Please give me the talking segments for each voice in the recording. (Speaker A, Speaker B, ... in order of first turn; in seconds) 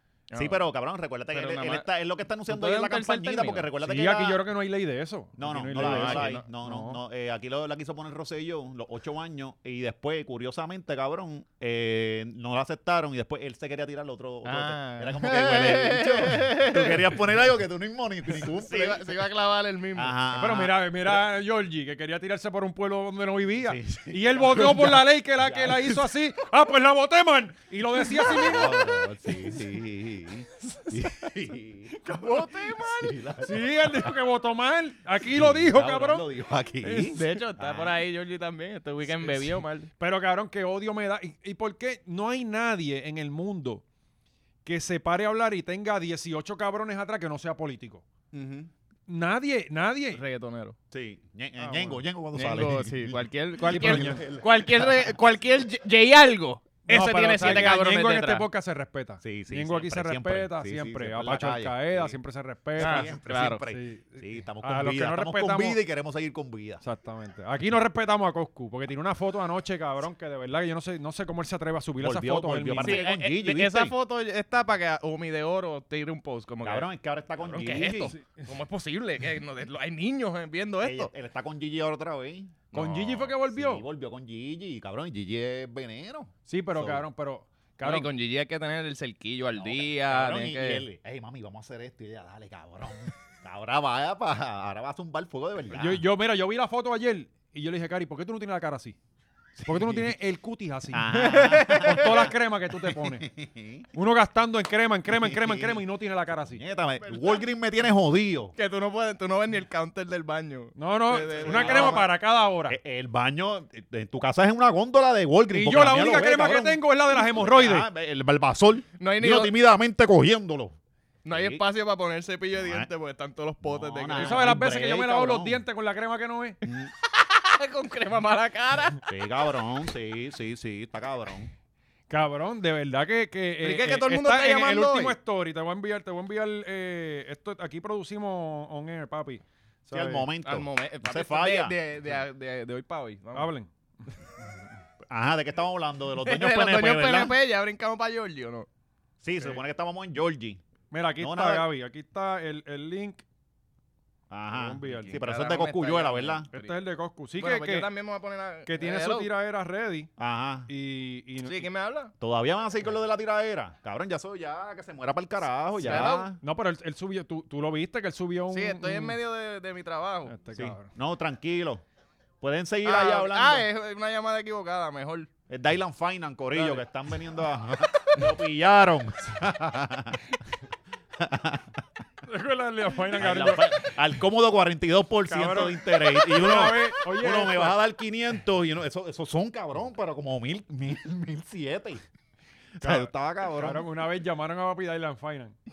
Speaker A: 0.3-0.6, 1.3-1.9, 2.5-3.7, 5.8-6.5, 14.4-17.2, 18.4-20.1, 32.0-33.2, 36.8-39.9, 50.1-50.8, 52.3-58.5, 62.8-63.6, 72.8-76.9, 77.4-81.1, 87.8-90.8, 101.1-102.2, 107.0-107.4, 108.6-112.0, 119.0-119.5, 121.2-124.5, 127.1-129.0, 133.6-135.2, 140.4-143.5, 146.2-148.7, 154.9-156.8, 157.4-159.3, 161.4-162.1, 165.8-166.3, 168.5-170.3, 172.8-175.3
Speaker B: 0.3-4.4, 5.4-19.1, 20.0-21.0, 23.6-26.0, 28.1-34.1, 35.3-38.0, 48.3-48.7, 50.9-55.1, 57.4-57.8, 59.2-62.2, 62.8-66.8, 72.0-74.0, 76.6-78.1, 80.8-87.1, 89.5-96.0, 99.6-100.1, 100.9-103.9, 105.1-105.9, 106.4-108.5, 111.3-112.1, 112.7-120.8, 121.3-121.6, 122.6-122.9, 123.6-125.6, 126.7-126.9, 129.1-131.5, 139.9-141.8, 145.1-147.4, 149.2-150.6, 151.2-151.7, 154.3-156.5, 160.2-160.7, 162.2-166.4, 170.5-171.8, 172.4-173.7, 175.5-180.2, 181.2-181.8, 183.1-192.0, 192.8-193.9
Speaker C: 3.8-7.0, 20.3-28.9, 33.4-36.2, 40.0-43.8, 44.6-48.0, 49.1-50.2, 51.6-52.0, 53.7-54.2, 56.9-65.8, 66.8-73.0, 77.9-78.5, 82.7-83.8, 86.5-88.1, 95.7-99.0, 99.7-101.1, 101.8-103.3, 103.9-106.6, 110.8-112.8, 115.5-117.9, 124.2-126.6, 132.1-140.3, 143.3-143.7, 150.9-153.2, 154.5-155.2, 156.5-157.9, 158.7-160.1, 160.7-161.7, 165.8-169.2, 170.3-170.9, 176.6-176.8, 182.3-183.9, 185.3-187.8, 192.8-195.6